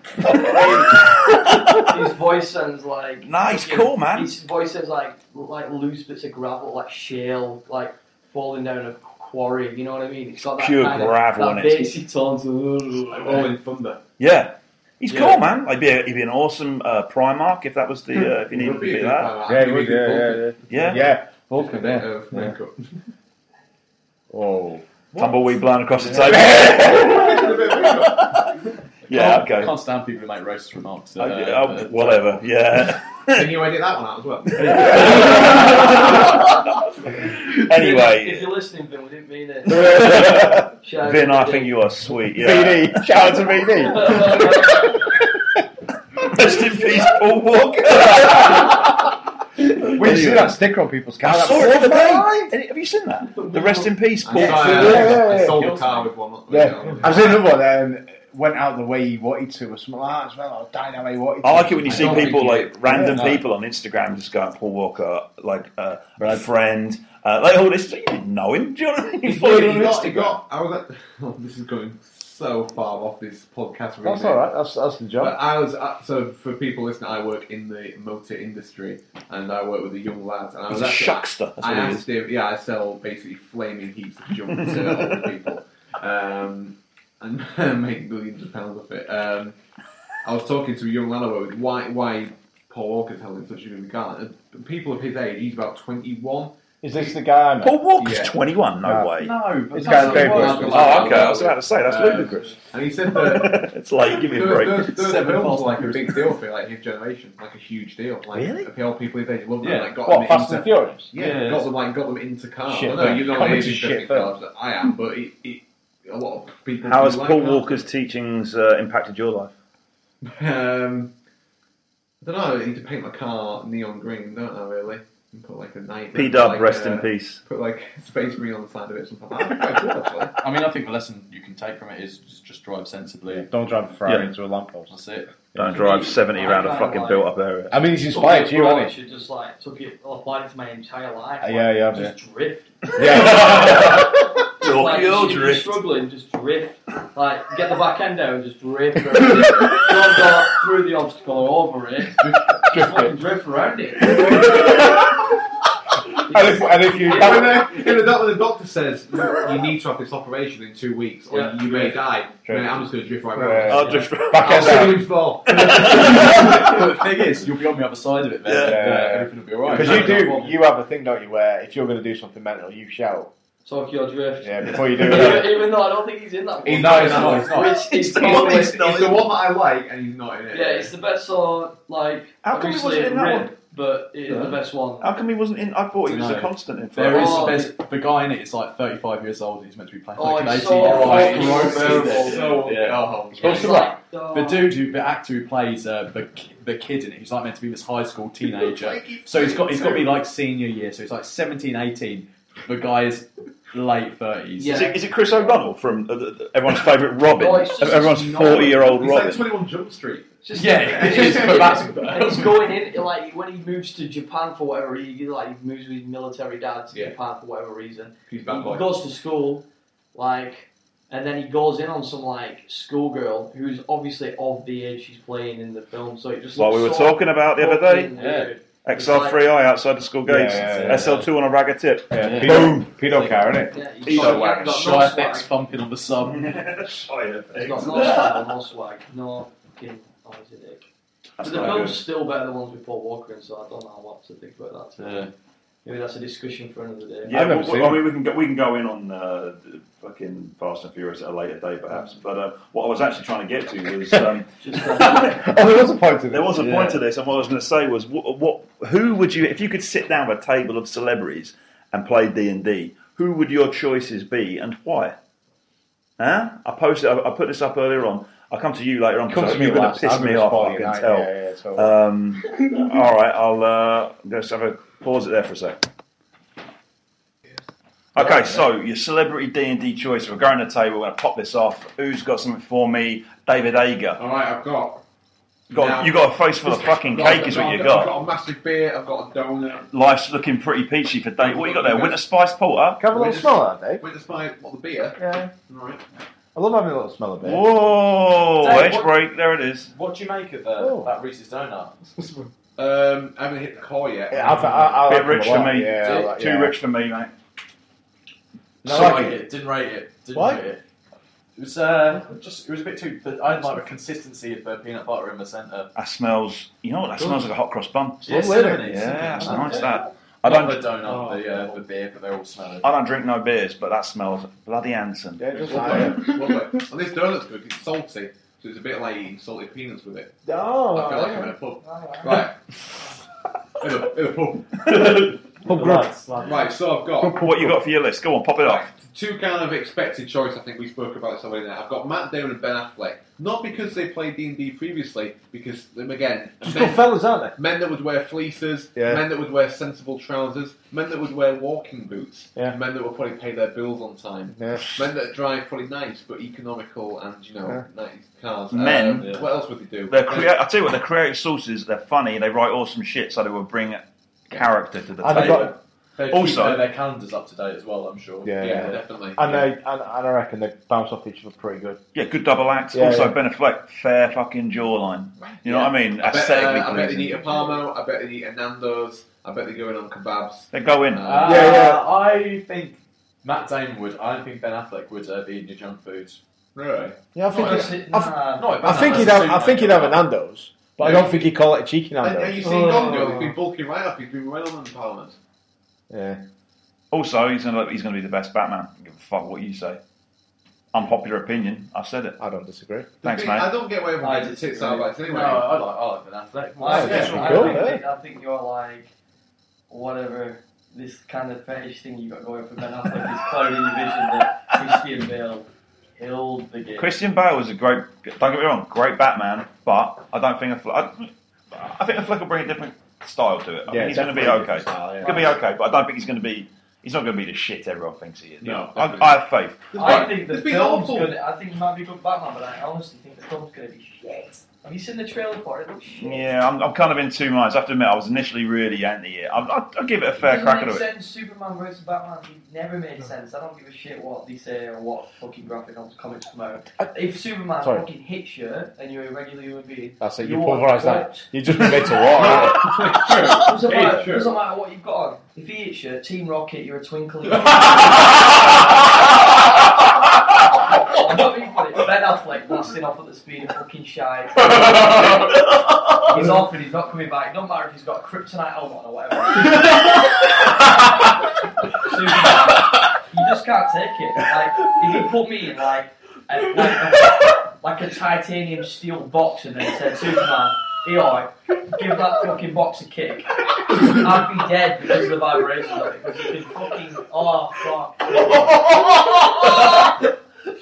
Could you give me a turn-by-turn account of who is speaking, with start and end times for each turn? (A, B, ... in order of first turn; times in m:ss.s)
0:00.2-0:02.0 A
0:01.8-0:13.5 B
0:03.2-0:04.3 A
0:10.5-0:12.0 A
0:13.1-0:14.0 C
0:14.2-0:19.3 A
0:15.1-0:15.4 B
0:18.1-0:20.9 C
0:19.4-0:22.5 D
0:20.7-0:21.0 A
0:21.6-0:22.8 C
0:24.3-0:24.8 D
0:25.2-0:28.4 A
0:26.0-0:28.7 C
0:29.1-0:29.8 A
0:29.1-0:32.4 E
0:31.2-0:33.7 A
0:33.3-0:36.0 C
0:34.6-0:38.5 A
0:34.6-0:35.3 D
0:34.6-0:35.8 E
0:35.7-0:36.3 B
0:37.5-0:41.7 B
0:39.7-0:44.9 A
0:40.0-0:40.6 D
0:42.2-0:44.7 D
0:43.8-0:45.2 B
0:46.2-0:48.9 A
0:48.1-0:48.8 D
0:49.8-0:52.5 D
0:49.9-0:50.5 A
0:51.2-0:55.1 A
0:53.3-0:54.0 B
0:54.2-0:57.4 C
0:54.4-0:55.6 D
0:54.4-0:56.1 E
0:56.5-1:02.3 D
1:01.4-1:10.4 A
1:01.9-1:03.3 C
1:02.0-1:02.6 E
1:02.8-1:03.4 D
1:09.2-1:14.5 C
1:14.0-1:15.4 D
1:15.2-1:29.6 C
1:20.7-1:22.1 A
1:24.5-1:25.3 A
1:30.2-1:37.2 C
1:36.8-1:37.8 D
1:37.6-1:39.4 A
1:38.0-1:38.3 C
1:38.8-1:39.1 D
1:39.1-1:42.2 E
1:39.7-1:40.9 D
1:39.9-1:40.6 B
1:39.9-1:57.7 C
1:40.7-1:45.0 A
1:44.9-1:46.2 E
1:48.3-1:48.7 A
1:49.6-1:50.0 E
1:50.0-1:51.1 D
1:51.1-1:51.7 E
1:52.7-1:54.3 D
1:56.8-1:59.5 A
2:00.2-2:01.1 C
2:02.2-2:10.4 C
2:06.1-2:07.4 A
2:10.4-2:13.5 E
2:13.3-2:14.9 D
2:14.0-2:14.3 A
2:14.9-2:15.5 E
2:15.5-2:17.9 A
2:15.6-2:17.3 B
2:17.7-2:18.9 D
2:18.0-2:24.0 B
2:21.4-2:22.1 D
2:23.0-2:24.1 D
2:23.0-2:25.8 A
2:24.6-2:35.1 B
2:32.6-2:33.2 D
2:34.1-2:35.2 D
2:36.3-2:36.7 B
2:36.3-2:37.8 D
2:36.9-2:46.8 C
2:41.3-2:41.6 B
2:42.4-2:45.6 D
2:43.6-2:46.8 A
2:45.6-2:50.5 E
2:48.4-2:48.9 A
2:48.6-2:53.3 D
2:49.7-2:50.2 C
2:53.6-2:58.8 B
2:54.4-2:55.6 D
2:56.6-2:57.7 D
2:56.6-3:00.9 C
2:57.5-2:59.3 A
3:00.5-3:05.1 B
3:02.4-3:03.5 A
3:05.0-3:07.6 A
3:06.0-3:24.9 E
3:07.1-3:07.7 B
3:10.2-3:12.5 B
3:10.8-3:13.9 C
3:13.4-3:14.7 B
3:18.4-3:20.2 C
3:24.6-3:25.0 B
3:24.7-3:29.5 A
3:27.3-3:28.8 B
3:28.1-3:30.3 C
3:30.4-3:49.4 B
3:30.5-3:32.7 E
3:38.3-3:39.0 C
3:46.5-3:48.1 A
3:48.1-3:48.5 E
3:48.8-3:53.0 A
3:50.2-3:51.2 D
3:50.5-3:51.3 E
3:52.1-3:53.7 D
3:52.2-3:56.5 E
3:53.7-3:55.5 B
3:54.0-3:54.7 A
3:56.2-3:58.5 A
3:57.5-4:00.9 B
4:01.4-4:02.0 A
4:01.4-4:05.3 B
4:05.0-4:05.3 E
4:05.8-4:07.4 B
4:07.2-4:15.5 A
4:07.3-4:08.1 D
4:14.6-4:15.5 B
4:14.9-4:17.0 D
4:16.3-4:25.2 A
4:26.2-4:35.8 A
4:29.3-4:32.0 D
4:38.1-4:44.2 A
4:38.2-4:38.6 D
4:44.2-4:45.0 C
4:45.7-4:49.9 C
4:45.7-4:48.1 A
4:49.9-4:53.0 A
4:51.4-4:52.2 C
4:53.0-4:54.0 D
4:53.1-4:56.0 C
4:55.2-4:55.5 D
4:56.5-4:57.7 D
4:57.4-4:59.9 A
4:58.6-4:59.1 B
4:58.7-4:59.1 E
4:59.9-5:02.2 E
5:00.8-5:01.1 D
5:02.8-5:05.1 C
5:04.3-5:06.8 D
5:05.0-5:07.3 A
5:08.8-5:09.4 D
5:08.8-5:10.8 E
5:10.3-5:10.6 D
5:11.6-5:15.9 E
5:15.9-5:20.9 A
5:18.2-5:22.9 E
5:18.2-5:19.7 D
5:22.8-5:26.1 A
5:25.4-5:26.5 D
5:25.5-5:32.6 C
5:30.4-5:31.5 D
5:31.8-5:32.5 B
5:33.8-5:35.4 C
5:35.6-5:36.1 D
5:36.4-5:37.5 C
5:37.2-5:38.9 A
5:37.2-5:37.7 D
5:38.6-6:00.5 C
5:46.6-5:47.6 D
5:49.0-5:49.2 D
5:54.6-5:54.8 D
5:58.7-5:59.3 A
5:59.2-5:59.5 E
6:00.1-6:05.8 A
6:05.2-6:05.7 D
6:05.3-6:09.6 E
6:06.3-6:06.9 A
6:08.4-6:12.0 D
6:08.6-6:09.5 C
6:12.1-6:17.7 A
6:12.9-6:13.4 D
6:15.6-6:21.9 C
6:20.7-6:21.4 A
6:21.2-6:26.4 E
6:21.4-6:22.0 D
6:26.7-6:27.2 C
6:27.3-6:32.9 D
6:27.5-6:29.4 B
6:28.6-6:30.2 E
6:31.0-6:31.3 C
6:32.2-6:35.4 C
6:32.6-6:33.3 B
6:36.1-6:36.4 D
6:37.1-6:40.0 A
6:40.9-6:42.4 A
6:42.4-6:43.1 D
6:43.2-6:45.7 C
6:43.2-6:43.7 A
6:44.2-6:45.6 B
6:45.2-6:48.0 E
6:46.8-6:49.1 B
6:46.9-6:48.0 D
6:49.9-6:55.7 B
6:56.2-6:57.1 B
6:57.0-7:10.3 A
7:03.9-7:05.6 D
7:08.6-7:09.4 C
7:09.9-7:11.3 C
7:09.9-7:16.5 B
7:16.1-7:21.0 A
7:20.4-7:32.6 B
7:30.2-7:33.0 D
7:32.3-7:34.6 C
7:33.5-7:39.1 B
7:40.8-7:51.0 B
7:46.3-7:46.6 D
7:51.9-8:08.7 B